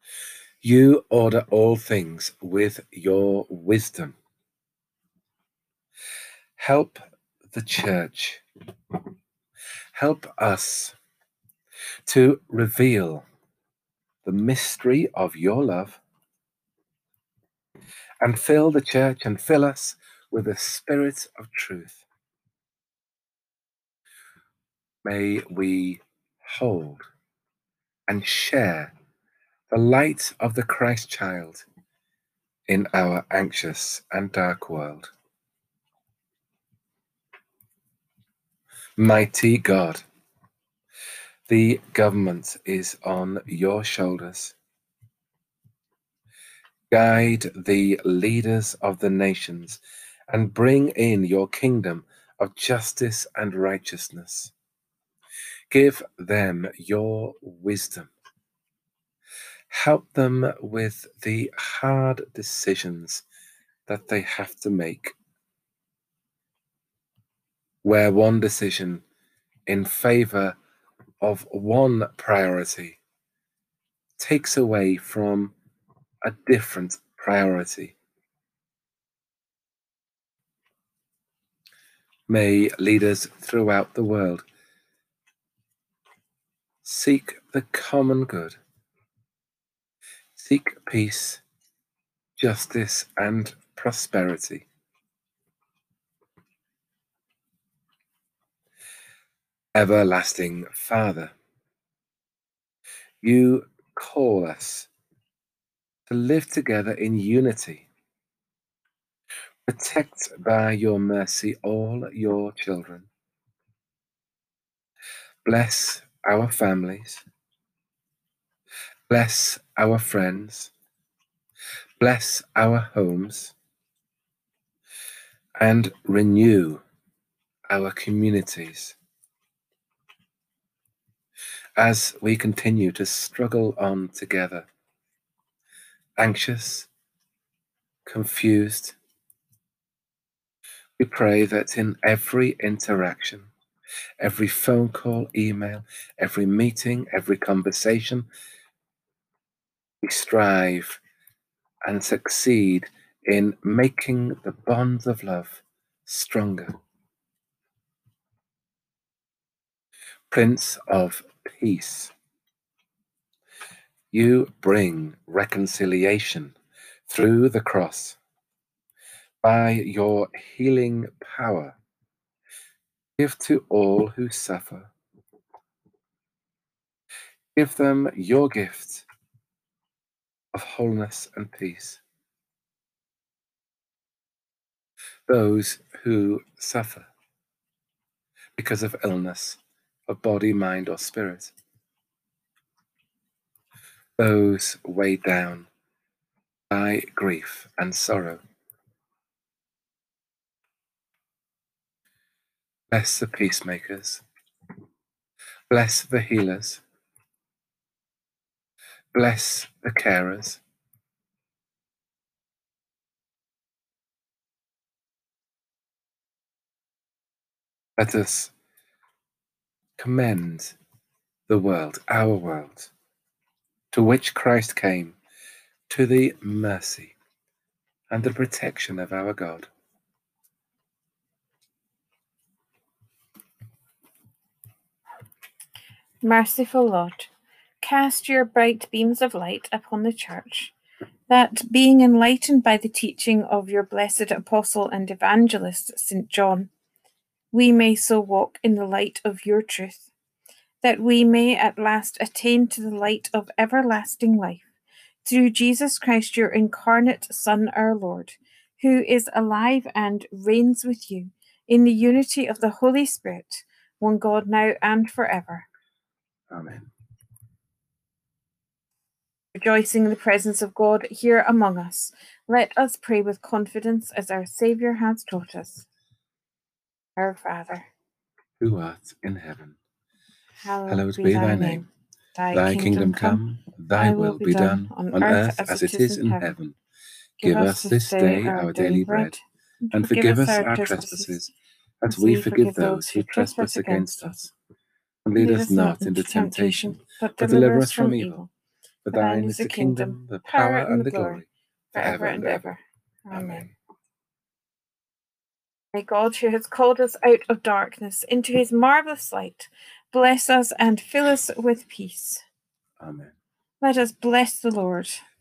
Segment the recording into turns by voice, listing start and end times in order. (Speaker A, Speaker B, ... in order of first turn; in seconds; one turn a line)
Speaker A: 0.6-4.2
Speaker A: 6.6-8.4
Speaker A: 9.9-10.9
Speaker A: 12.1-13.2
Speaker A: 14.2-16.0
Speaker A: 18.2-22.0
Speaker A: 25.1-27.1
Speaker A: 28.1-28.9
Speaker A: 29.7-31.6
Speaker A: 32.7-35.1
Speaker A: 39.0-40.0
Speaker A: 41.5-44.5
Speaker A: 46.9-54.5
Speaker A: 55.7-58.1
Speaker A: 59.7-63.2
Speaker A: 63.9-65.2
Speaker A: 67.8-69.0
Speaker A: 69.7-70.5
Speaker A: 71.2-73.0
Speaker A: 74.2-75.5
Speaker A: 76.2-78.0
Speaker A: 82.3-84.5
Speaker A: 86.8-88.6
Speaker A: 90.4-91.4
Speaker A: 92.4-94.7
Speaker A: 99.8-101.3
Speaker A: 103.2-104.9
Speaker A: 106.1-107.9
Speaker A: 109.7-113.1
Speaker A: 115.5-117.2
Speaker A: 119.1-120.7
Speaker A: 122.0-123.5
Speaker A: 125.6-126.8
Speaker A: 127.7-129.0
Speaker A: 131.8-134.7
Speaker A: 136.2-136.9
Speaker A: 138.1-139.0
Speaker A: 141.0-143.5
Speaker A: 144.2-148.3
Speaker A: 150.0-151.0
Speaker A: 151.9-156.8
Speaker A: 160.3-162.1
Speaker A: 164.1-166.6
Speaker A: 167.1-168.2
Speaker A: 169.4-171.8
Speaker A: 173.2-174.9
Speaker A: 177.6-179.1
Speaker A: 180.5-182.0
Speaker A: 185.3-187.1
Speaker A: 188.6-191.5
Speaker A: 194.2-195.7
Speaker A: 196.7-198.4
Speaker A: 202.9-204.2
Speaker A: 205.7-206.8
Speaker A: 209.1-210.6
Speaker A: 218.0-218.5
Speaker A: 220.0-220.8
Speaker A: 221.5-222.9
Speaker A: 223.9-225.2
Speaker A: 225.9-227.2
Speaker A: 228.1-229.7
Speaker B: 236.2-240.7
Speaker B: 241.3-246.7
Speaker B: 247.5-250.1
Speaker B: 250.8-254.7
Speaker B: 255.2-265.7
Speaker A: 266.5-266.9
Speaker B: 269.6-275.9
Speaker B: 277.2-277.9
Speaker A: 278.6-279.8
Speaker B: 280.6-283.4
Speaker A: 280.9-281.9
Speaker A: 282.5-286.8
Speaker B: 284.0-286.5
Speaker B: 287.4-291.4
Speaker A: 287.4-289.4
Speaker A: 289.9-294.5
Speaker B: 292.1-294.3
Speaker A: 295.2-298.4
Speaker B: 295.4-298.5
Speaker A: 299.1-302.7
Speaker B: 299.1-301.4
Speaker B: 301.9-303.7
Speaker A: 303.3-303.7
Speaker B: 305.9-312.4
Speaker A: 313.0-313.3
Speaker B: 313.8-315.2